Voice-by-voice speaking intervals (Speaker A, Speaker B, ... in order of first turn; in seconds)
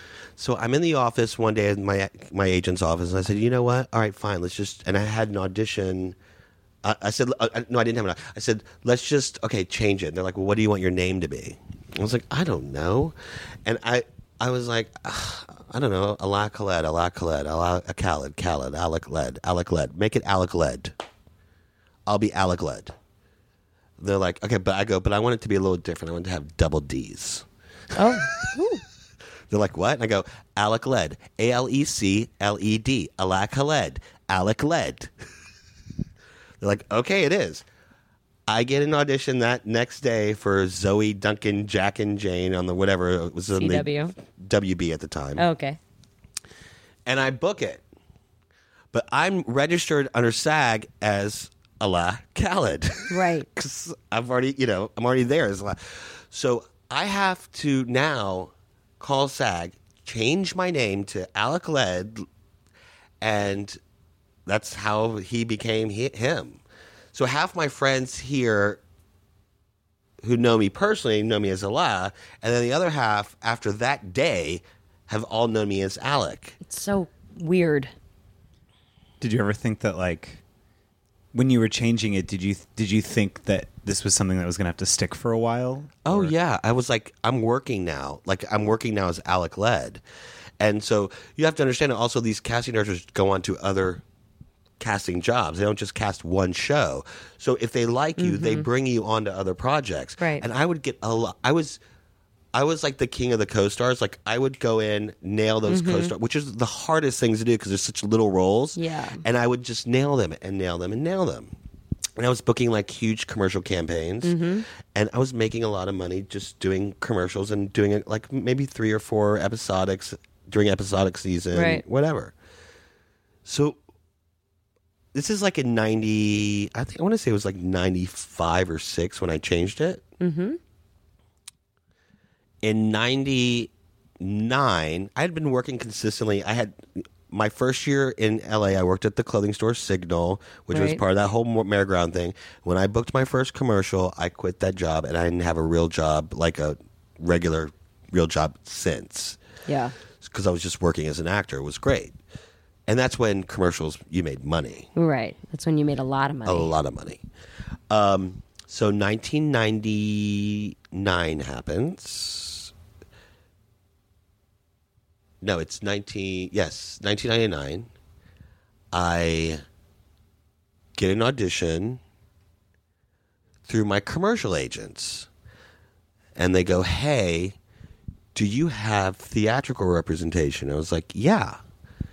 Speaker A: 0.4-6.2, 6.8-20.9, 22.1-22.9, 24.0-27.5, 29.5-35.1, 36.6-37.6, 38.5-45.4, 47.1-47.8, 48.9-62.3, 63.2-63.8, 64.5-66.6, 67.1-68.8, 70.2-76.6, 86.1-90.0, 90.6-94.0, 94.8-101.8, 102.5-111.5, 112.2-114.4, 114.9-122.3, 123.5-123.8, 125.1-130.1, 132.6-149.4, 150.2-152.2, 152.9-154.9, 156.5-157.2, 157.9-162.7, 165.4-167.9, 168.9-169.6, 170.9-172.0, 173.7-175.3, 176.4-177.6, 178.3-181.6
Speaker B: 27.9-28.8, 43.6-44.1, 45.4-45.8, 53.1-53.5, 76.7-77.9, 98.2-98.7, 100.2-100.5, 105.7-106.1, 108.8-109.2, 114.2-114.7, 121.5-121.8, 130.2-130.6, 140.7-141.0, 149.7-149.9, 154.9-156.7
Speaker C: 79.2-80.4, 81.3-86.3